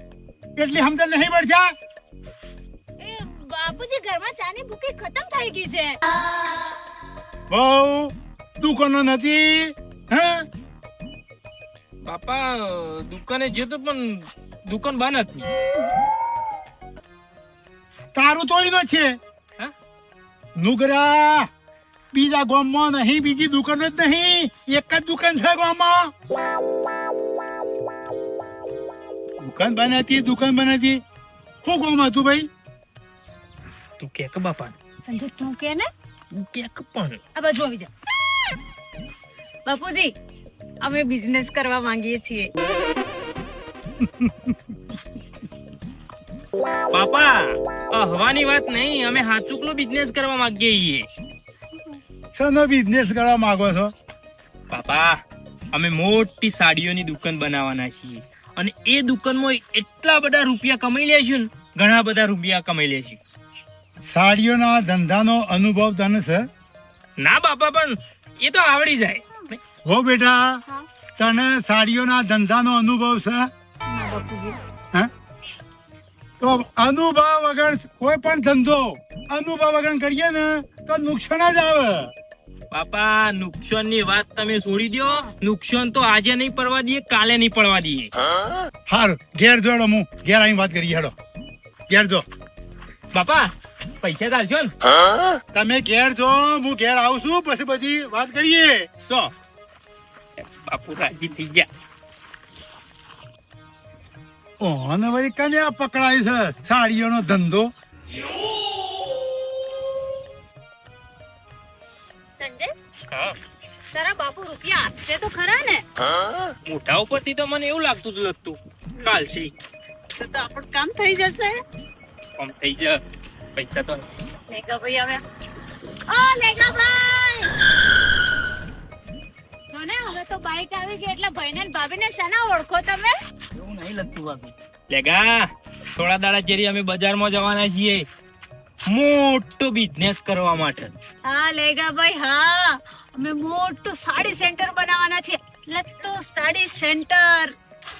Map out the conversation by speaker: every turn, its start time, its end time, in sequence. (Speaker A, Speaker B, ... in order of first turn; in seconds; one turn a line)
Speaker A: 0.6-1.7
Speaker B: 3.0-6.0
Speaker A: 7.5-10.4
Speaker C: 12.0-15.5
Speaker A: 18.1-19.1
Speaker A: 20.6-21.5
Speaker A: 22.1-26.1
Speaker A: 29.4-31.0
Speaker A: 31.6-32.5
Speaker C: 34.0-34.7
Speaker B: 35.0-35.9
Speaker C: 36.3-37.2
Speaker B: 37.4-37.9
Speaker B: 39.6-40.1
Speaker B: 40.8-42.5
Speaker A: 44.0-44.8
Speaker C: 46.9-51.1
Speaker A: 52.3-53.9
Speaker C: 54.7-55.2
Speaker C: 55.7-63.2
Speaker A: 64.0-66.4
Speaker C: 67.2-69.6
Speaker A: 69.8-70.6
Speaker A: 71.2-73.5
Speaker B: 73.9-74.6
Speaker A: 76.4-82.1
Speaker C: 82.7-88.1
Speaker A: 88.9-91.1
Speaker A: 91.9-92.2
Speaker C: 93.1-93.5
Speaker C: 94.0-94.7
Speaker A: 95.5-99.3
Speaker C: 100.4-101.7
Speaker A: 104.6-107.7
Speaker B: 112.4-112.7
Speaker C: 113.1-113.3
Speaker B: 113.9-115.8
Speaker C: 116.7-119.5
Speaker B: 120.1-121.6
Speaker C: 122.4-123.0
Speaker C: 123.5-124.0
Speaker B: 124.5-125.2
Speaker B: 126.1-127.5
Speaker B: 129.7-133.1
Speaker C: 133.5-138.0
Speaker C: 138.9-140.9
Speaker B: 141.2-147.5